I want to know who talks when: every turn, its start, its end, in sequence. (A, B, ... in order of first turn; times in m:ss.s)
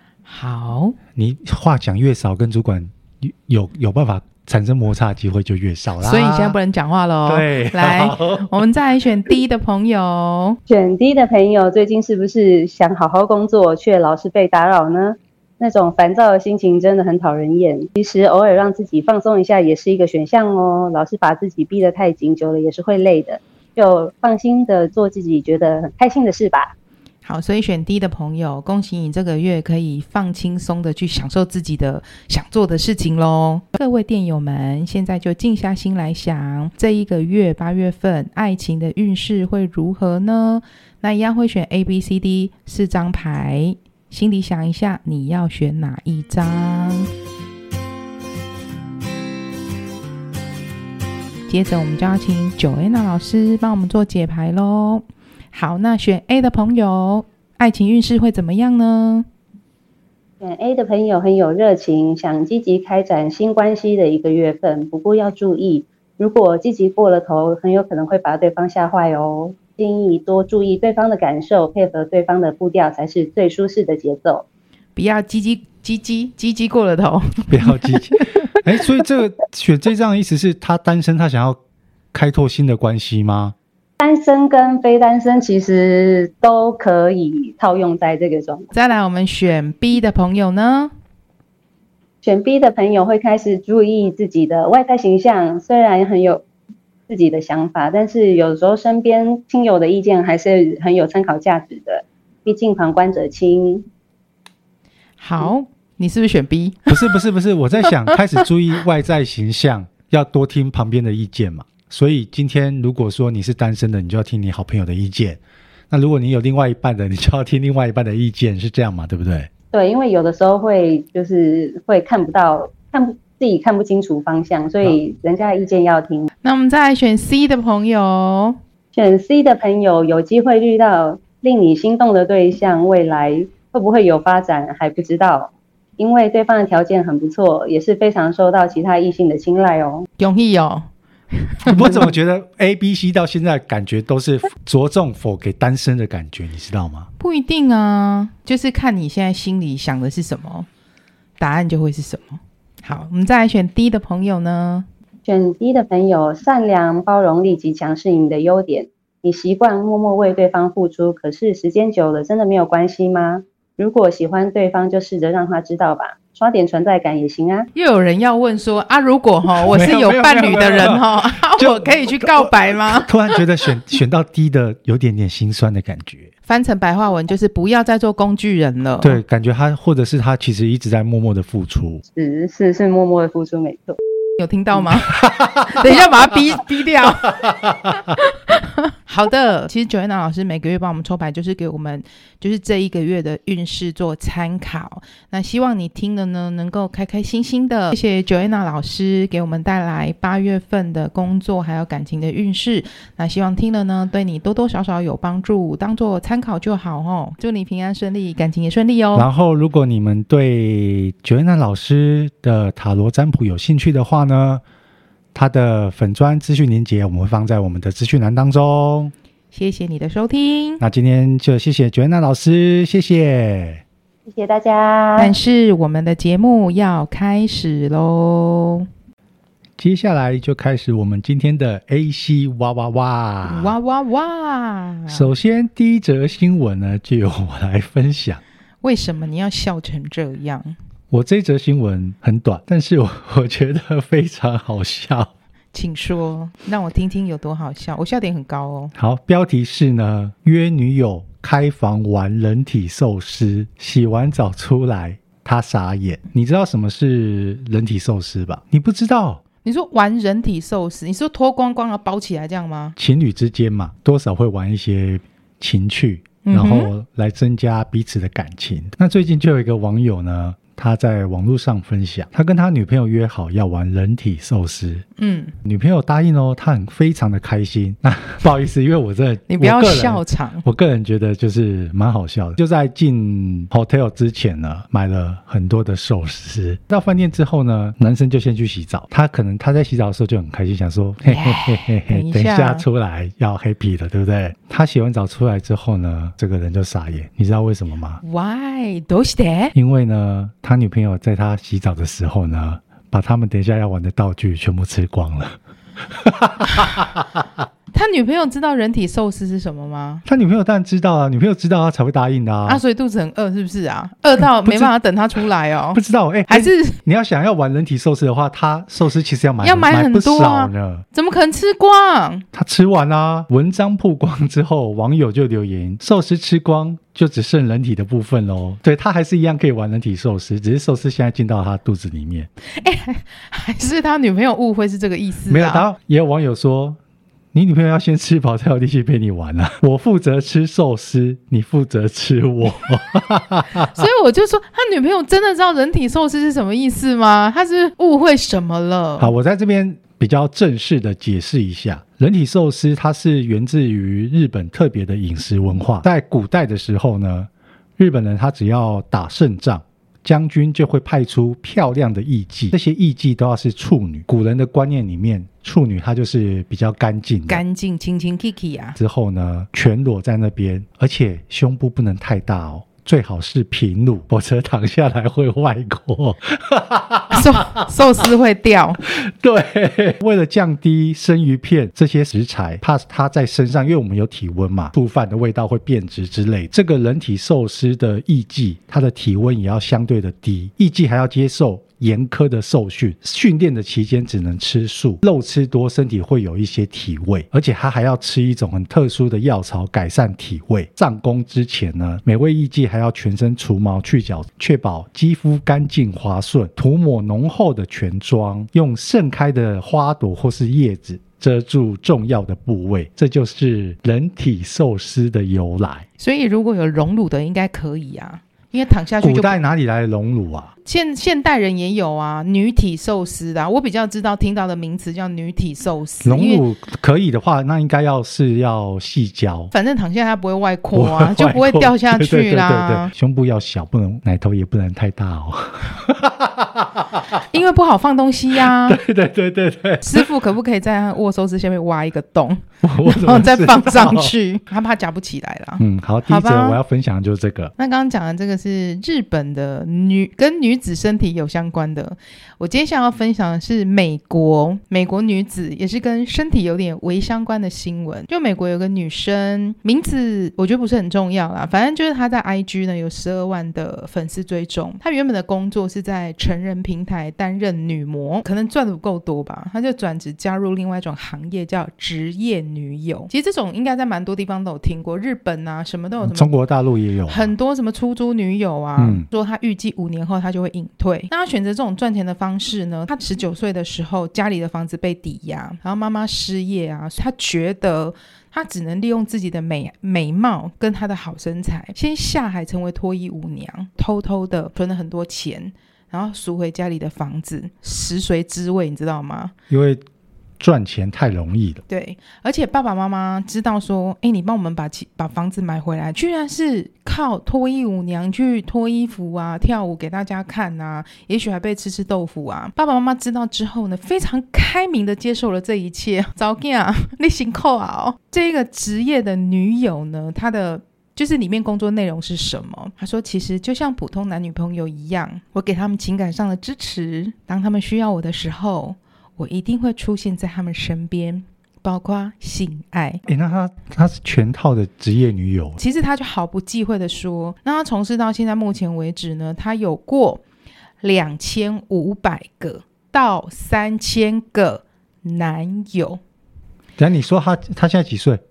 0:00.2-0:01.0 A
0:01.1-0:06.6 B
0:06.0-0:10.6 A
0:07.3-0:08.5 B
0:10.7-0:26.7 C
0:27.2-0:47.1 A
0:51.5-0:59.3 A
1:00.4-1:14.4 C
1:15.0-1:17.9 A
1:17.5-1:21.6 B
1:22.1-1:23.5 B
1:24.0-1:28.7 C
1:28.7-1:30.9 A
1:32.2-1:36.4 C
1:37.1-1:43.8 C
1:45.2-1:47.0 A
1:46.9-1:55.4 B
1:55.9-1:59.5 B
1:59.7-2:06.3 C
2:06.4-2:08.6 A
2:08.9-2:20.1 C
2:20.2-2:22.0 A
2:21.7-2:27.1 B
2:27.2-2:30.7 A
2:31.4-2:34.9 A
2:35.2-2:47.7 C
2:47.7-2:53.4 A
2:49.5-2:56.3 B
2:56.5-2:59.2 A
2:59.0-3:02.0 B
3:02.1-3:04.0 C
3:04.4-3:29.3 A
3:05.2-3:05.9 B
3:29.1-3:34.6 B
3:35.3-3:39.1 B
3:39.5-3:40.8 A
3:40.8-3:43.8 B
3:44.2-3:45.3 C
3:45.2-3:48.9 A
3:49.8-3:53.8 B
3:53.4-3:55.3 A
3:55.1-3:58.4 B
3:58.8-4:00.7 A
4:01.1-4:05.3 B
4:05.7-4:08.9 A
4:08.9-4:19.4 B
4:19.6-4:22.9 A
4:23.0-4:35.0 B
4:26.4-4:26.9 A
4:35.2-4:35.5 A
4:35.6-4:58.2 B
4:39.5-4:40.6 A
4:51.3-4:52.8 A
4:58.2-4:59.7 A
4:59.7-5:07.5 B
5:07.9-5:10.2 A
5:10.2-5:12.8 B
5:12.6-5:17.0 A
5:14.4-5:14.9 B
5:15.9-5:21.0 B
5:19.6-5:22.4 A
5:22.5-5:32.5 B
5:32.8-5:35.8 A
5:35.5-5:37.0 B
5:37.5-5:44.0 B
5:43.8-5:49.3 A
5:49.2-6:07.6 B
6:07.5-6:09.0 A
6:09.0-6:17.9 B
6:17.3-6:19.0 A
6:19.0-6:56.1 B
6:56.2-6:59.6 A
6:59.2-7:00.7 B
7:00.8-7:06.6 A
7:06.2-7:09.7 B
7:09.7-7:13.1 A
7:10.9-7:17.4 B
7:17.5-7:19.0 A
7:18.5-7:20.3 B
7:20.0-7:26.8 A
7:22.8-7:24.3 B
7:25.8-7:27.7 B
7:27.8-7:56.5 A
7:56.2-7:57.5 B
7:57.3-8:19.5 A
7:59.0-7:59.3 B
8:19.7-8:20.0 B
8:20.6-8:21.8 B
8:21.9-8:53.2 A
8:53.3-8:55.8 B
8:55.8-9:00.4 A
9:01.0-9:06.2 A
9:07.0-9:08.4 B